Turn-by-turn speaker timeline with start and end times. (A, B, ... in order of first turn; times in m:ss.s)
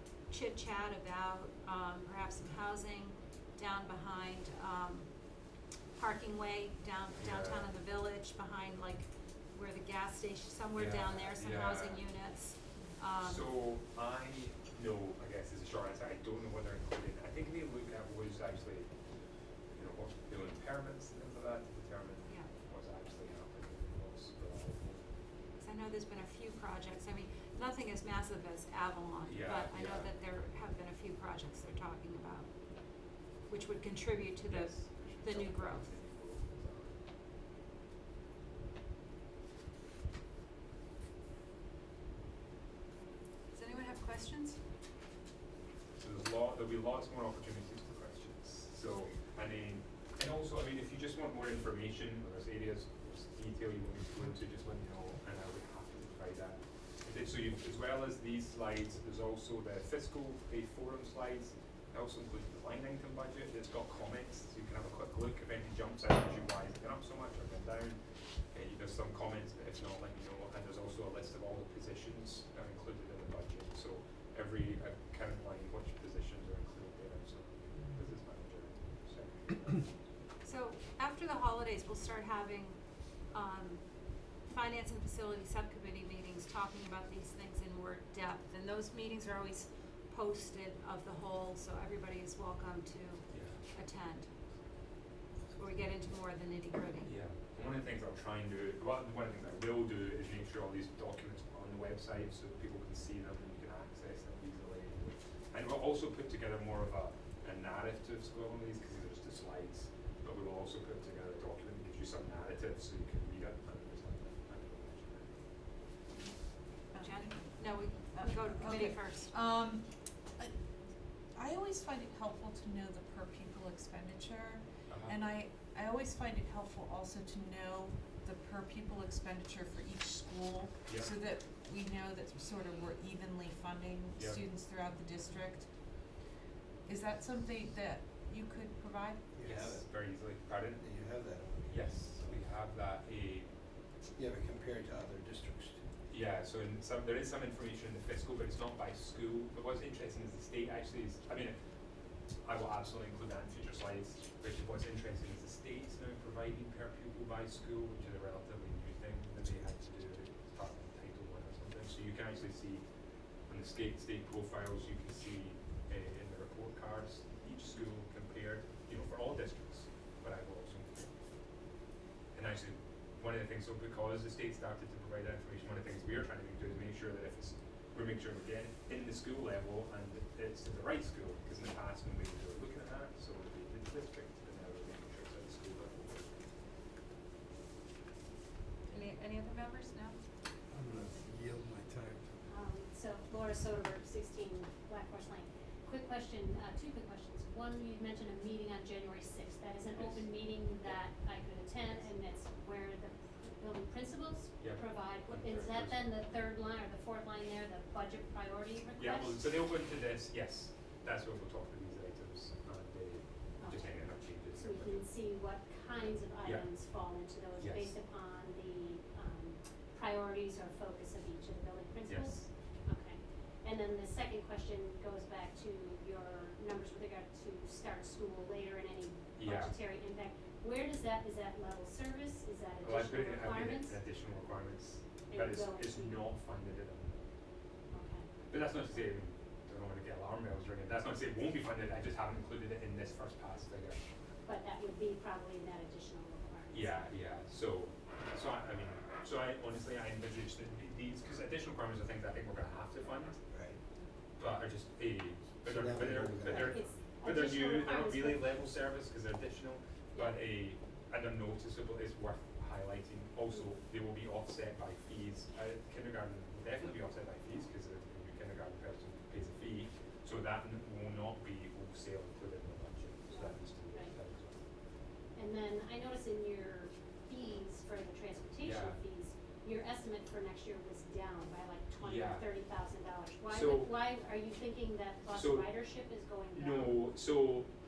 0:00.3-0:05.1 A
0:05.9-0:13.4 A
0:07.2-0:07.8 B
0:10.8-0:12.0 B
0:13.2-0:18.9 B
0:19.7-0:25.1 B
0:22.2-0:22.5 A
0:25.5-0:32.5 A
0:29.2-0:30.1 B
0:33.5-0:35.9 A
0:34.2-0:37.0 B
0:43.5-0:44.6 A
0:46.0-1:08.0 B
1:08.5-1:19.9 B
1:20.4-1:22.8 A
1:23.3-1:23.8 A
1:24.4-1:34.3 A
1:33.3-1:33.6 B
1:35.5-1:37.1 A
1:37.0-1:55.3 B
1:56.9-1:57.6 C
1:57.0-1:59.3 A
1:58.2-1:59.8 C
2:01.3-2:15.8 C
2:04.9-2:05.2 B
2:10.8-2:11.1 B
2:14.2-2:14.4 B
2:16.8-2:19.3 C
2:19.3-2:22.4 D
2:19.4-2:20.8 B
2:21.7-2:23.5 B
2:24.1-2:25.9 D
2:26.1-2:31.6 B
2:32.4-2:42.8 B
2:43.5-2:51.1 B
2:52.3-3:06.3 B
3:08.9-3:10.2 A
3:10.7-3:12.3 D
3:12.4-3:29.4 E
3:19.9-3:21.0 B
3:21.8-3:22.1 B
3:24.6-3:26.2 B
3:29.0-3:35.1 B
3:33.6-3:34.0 E
3:34.5-3:54.0 E
3:36.4-3:36.7 B
3:37.6-3:37.9 B
3:42.0-3:42.4 B
3:49.4-3:49.7 B
3:52.8-3:57.3 B
3:55.3-3:56.2 E
3:57.9-3:58.3 E
3:58.5-4:04.0 B
4:04.4-4:07.0 E
4:06.7-4:13.4 B
4:13.5-4:13.8 D
4:14.4-4:34.6 B
4:15.6-4:16.8 D
4:16.4-4:18.4 E
4:33.3-4:34.1 E
4:35.3-4:47.0 E
4:38.6-4:39.0 B
4:41.9-4:42.6 B
4:43.5-4:44.0 B
4:45.3-4:45.7 B
4:46.5-4:47.7 B